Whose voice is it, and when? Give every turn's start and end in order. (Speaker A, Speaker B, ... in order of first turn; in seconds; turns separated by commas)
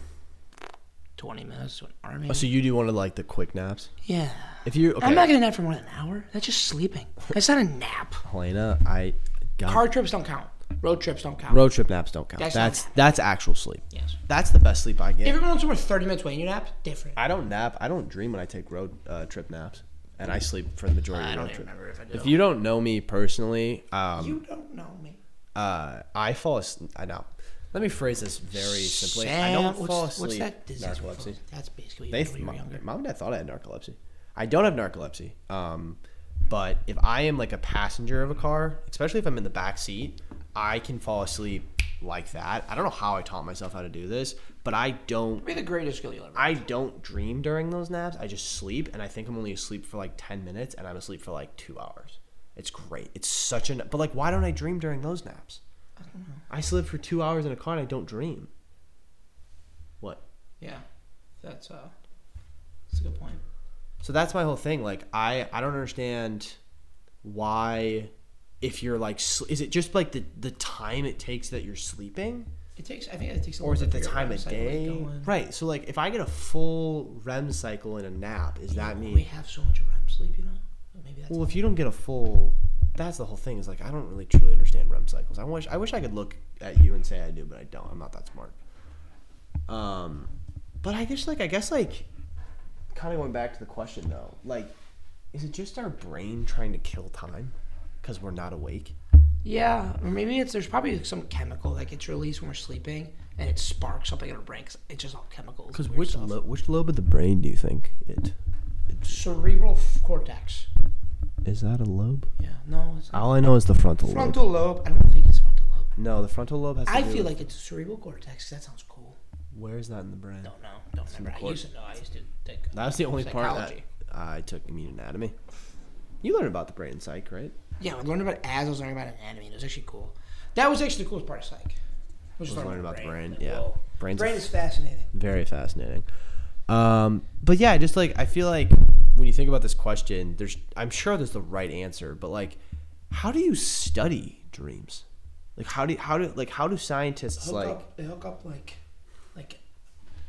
Speaker A: 1.2-2.5, Speaker B: 2.3-3.9, Speaker A: 4.0-8.2, Speaker B: 4.7-5.3, Speaker B: 8.2-9.9, Speaker A: 9.7-11.7, Speaker B: 11.5-15.4, Speaker A: 12.4-13.2, Speaker A: 13.9-14.2, Speaker A: 15.2-17.2, Speaker B: 17.2-24.4, Speaker A: 21.1-22.4, Speaker A: 24.2-25.2, Speaker B: 25.6-31.4, Speaker A: 28.6-32.8, Speaker B: 32.1-45.5, Speaker A: 45.4-46.7, Speaker B: 46.4-55.6, Speaker A: 56.0-56.4, Speaker B: 56.5-58.5, Speaker A: 60.6-60.9, Speaker A: 61.4-61.9, Speaker A: 62.9-63.4, Speaker B: 64.0-66.6, Speaker B: 67.2-72.5, Speaker A: 72.8-75.4, Speaker B: 73.6-79.3, Speaker A: 78.7-81.6, Speaker B: 81.3-88.6, Speaker B: 89.7-90.3, Speaker B: 90.8-92.1, Speaker B: 92.9-94.7, Speaker B: 95.3-99.0, Speaker A: 99.4-106.4, Speaker B: 105.7-108.4, Speaker B: 108.9-109.2, Speaker A: 109.0-110.7, Speaker B: 111.5-112.3, Speaker A: 112.4-113.4, Speaker B: 113.1-114.4, Speaker A: 114.0-115.9, Speaker B: 116.0-117.4, Speaker A: 116.9-119.2, Speaker B: 119.5-120.5, Speaker A: 120.4-123.8, Speaker B: 121.1-121.6, Speaker B: 122.7-125.4, Speaker B: 126.2-127.6, Speaker A: 127.8-131.8, Speaker A: 132.4-135.1, Speaker B: 132.5-134.5, Speaker B: 135.1-136.1, Speaker B: 136.7-145.1, Speaker B: 145.6-147.8, Speaker A: 147.4-148.8, Speaker A: 149.3-149.6